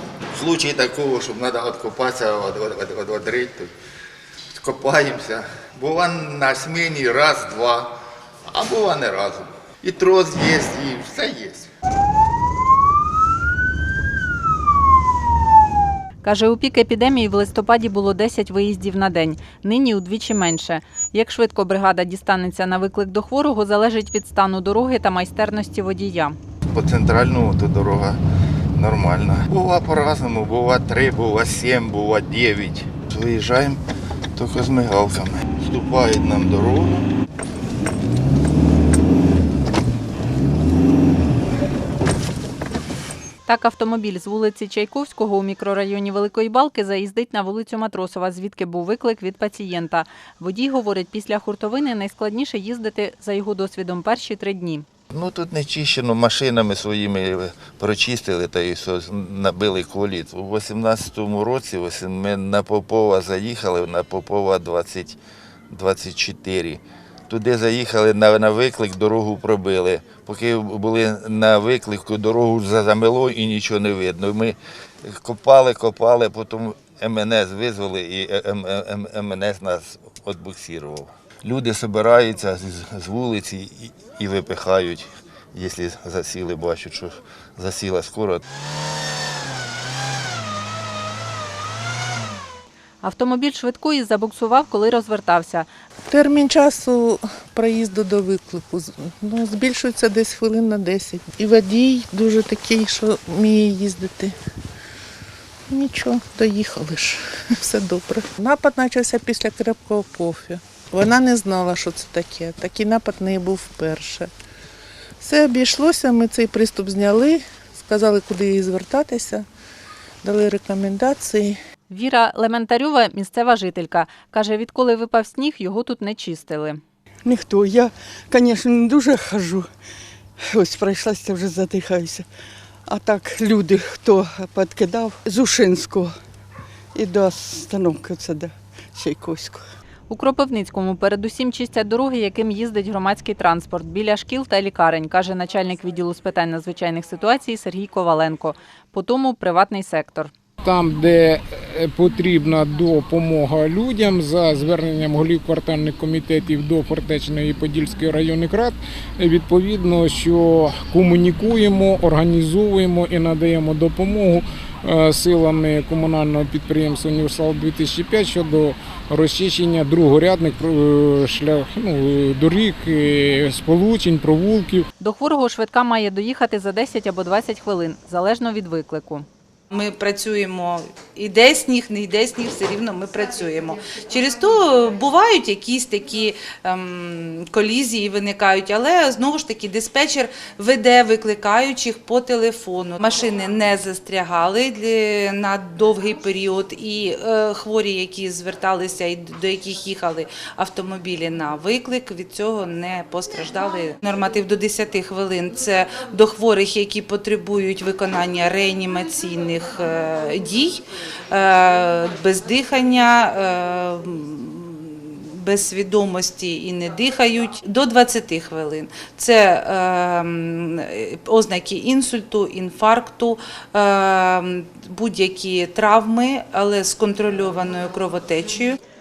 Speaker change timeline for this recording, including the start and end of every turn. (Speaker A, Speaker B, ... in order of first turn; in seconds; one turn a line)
Speaker A: 0.3-3.7
Speaker A: 4.5-8.0
Speaker A: 8.5-11.7
Speaker B: 16.2-26.4
Speaker A: 26.7-28.2
Speaker A: 28.7-33.8
Speaker A: 34.3-37.0
Speaker B: 43.5-54.8
Speaker A: 55.1-65.2
Speaker A: 65.7-88.4
Speaker B: 93.0-95.7
Speaker C: 96.1-104.3
Speaker C: 105.7-114.3
Speaker C: 115.2-119.4
Speaker C: 120.2-121.5
Speaker B: 121.9-126.8
Speaker D: 127.2-129.7
Speaker D: 130.5-132.2
Speaker D: 132.9-136.1
Speaker D: 136.9-139.6
Speaker B: 140.1-150.3
Speaker E: 150.6-174.8
Speaker B: 175.0-179.2
Speaker F: 179.7-228.8